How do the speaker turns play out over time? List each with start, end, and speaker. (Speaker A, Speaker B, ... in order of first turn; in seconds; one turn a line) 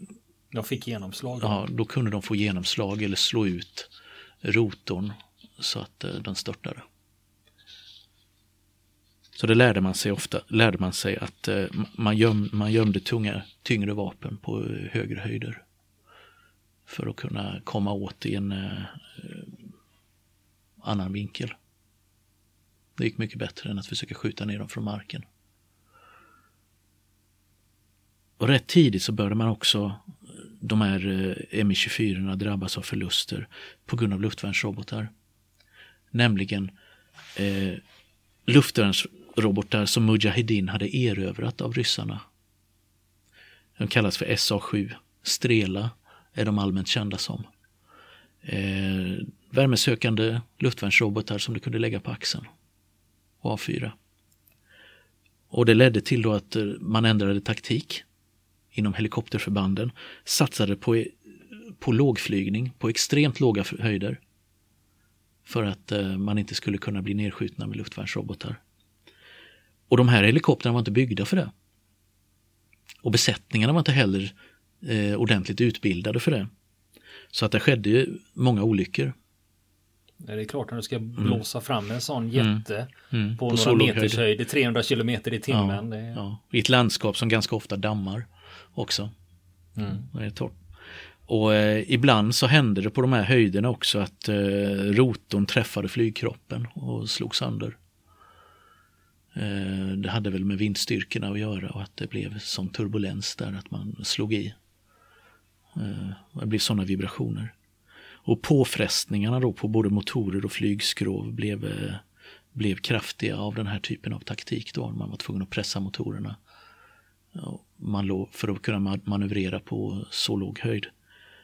Speaker A: 0.5-1.6
Speaker B: 1.4-3.9
Speaker B: 4.4-6.8
Speaker B: 9.3-15.6
Speaker B: 16.9-19.6
Speaker B: 20.8-21.5
Speaker B: 23.0-25.2
Speaker B: 28.4-35.1
Speaker B: 36.1-36.7
Speaker B: 37.4-37.8
Speaker B: 38.5-42.2
Speaker B: 43.8-47.5
Speaker B: 48.4-52.5
Speaker B: 53.4-53.9
Speaker B: 55.5-58.0
Speaker B: 58.7-64.2
Speaker B: 65.5-68.6
Speaker B: 69.9-71.5
Speaker B: 73.0-76.5
Speaker B: 77.3-79.1
Speaker A: 80.2-86.2
Speaker B: 83.1-84.2
Speaker B: 85.5-89.1
Speaker A: 89.8-90.1
Speaker B: 89.9-90.6
Speaker B: 91.3-97.8
Speaker B: 99.3-104.6
Speaker B: 105.7-107.5
Speaker B: 108.2-112.0
Speaker B: 112.5-116.4
Speaker B: 117.3-120.9